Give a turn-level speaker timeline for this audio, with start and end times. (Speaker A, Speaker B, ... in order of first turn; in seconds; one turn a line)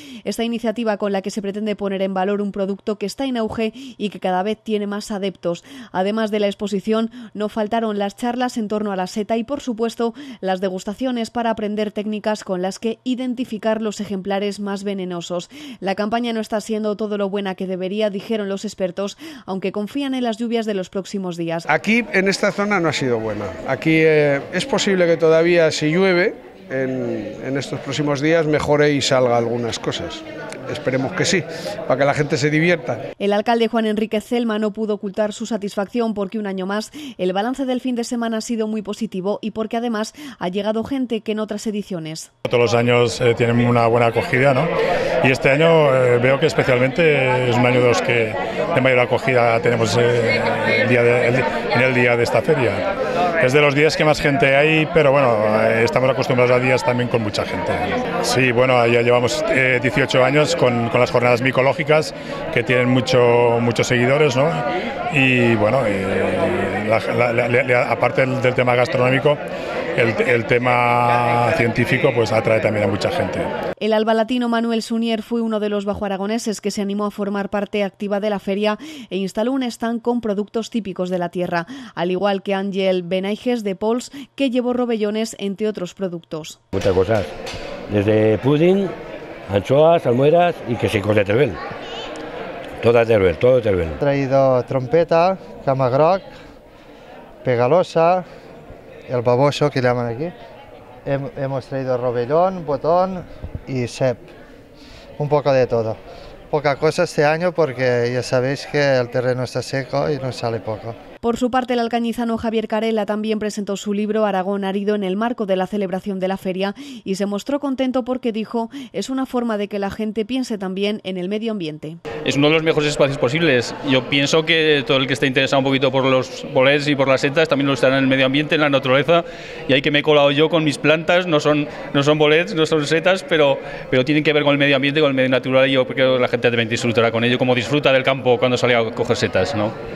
Speaker A: 0.2-21.7
Speaker B: 21.7-30.2
Speaker B: 30.7-33.0
Speaker A: 33.2-42.3
Speaker C: 42.5-44.7
Speaker C: 45.2-52.9
Speaker C: 53.4-69.4
Speaker C: 70.0-73.5
Speaker A: 73.8-86.6
Speaker D: 86.8-87.3
Speaker D: 87.9-88.9
Speaker D: 89.5-91.6
Speaker D: 92.8-94.0
Speaker E: 94.0-96.3
Speaker E: 97.4-98.2
Speaker E: 99.1-100.3
Speaker E: 101.1-104.3
Speaker E: 105.2-106.0
Speaker E: 106.5-111.0
Speaker A: 111.2-122.0
Speaker F: 122.2-139.7